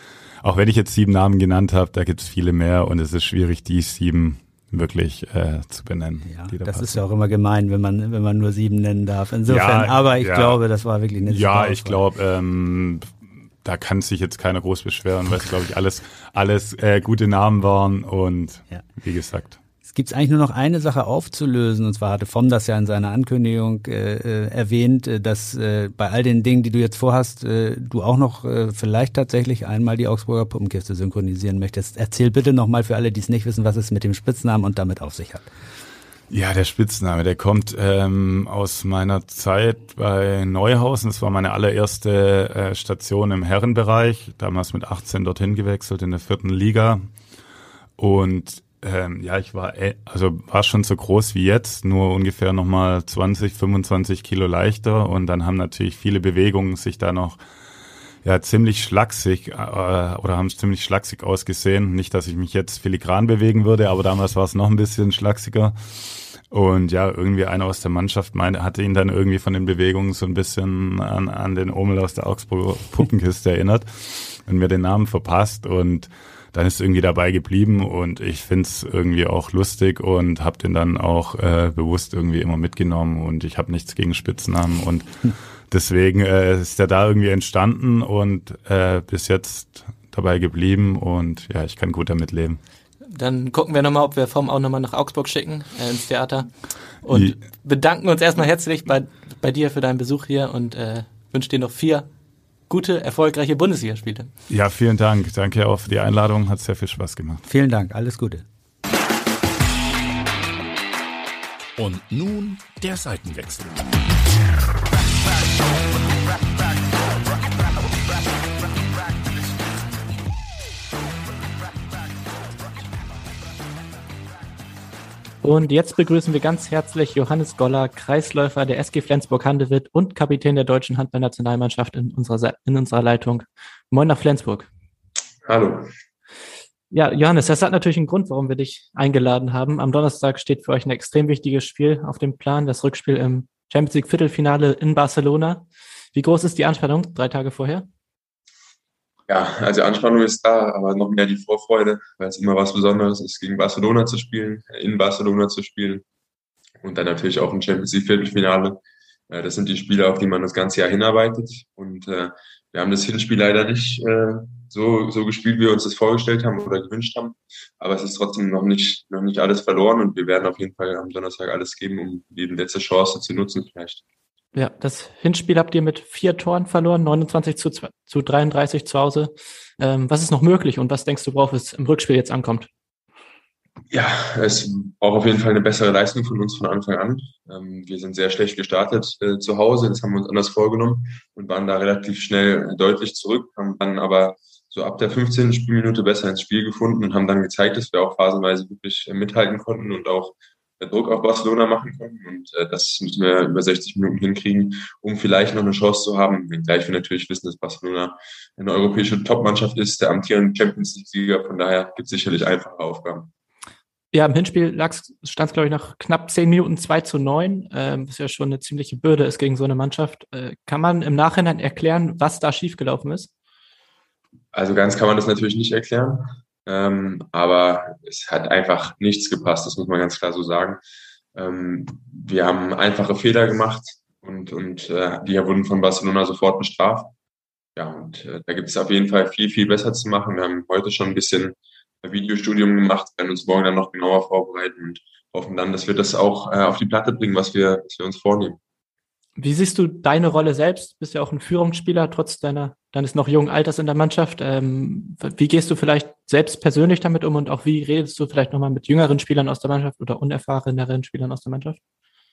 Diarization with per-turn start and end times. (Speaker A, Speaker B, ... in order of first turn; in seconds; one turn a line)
Speaker A: 0.4-7.0
Speaker B: 6.3-12.0
Speaker A: 9.5-10.6
Speaker A: 11.3-13.1
Speaker A: 13.6-19.6
Speaker B: 19.8-35.5
Speaker A: 36.3-47.0
Speaker A: 48.0-57.4
Speaker A: 58.2-92.6
Speaker C: 93.0-96.5
Speaker C: 97.0-102.1
Speaker A: 97.1-97.3
Speaker C: 102.7-104.3
Speaker A: 104.5-107.4
Speaker B: 107.5-108.4
Speaker D: 111.8-114.0
Speaker C: 125.4-134.7
Speaker E: 135.4-135.9
Speaker C: 136.9-147.8
Speaker E: 149.3-156.0
Speaker E: 156.8-174.0
Speaker C: 174.5-182.7
Speaker E: 183.9-213.3
Speaker C: 214.1-223.3
Speaker E: 224.5-230.8
Speaker E: 231.3-237.1
Speaker E: 237.8-248.6
Speaker C: 249.4-261.8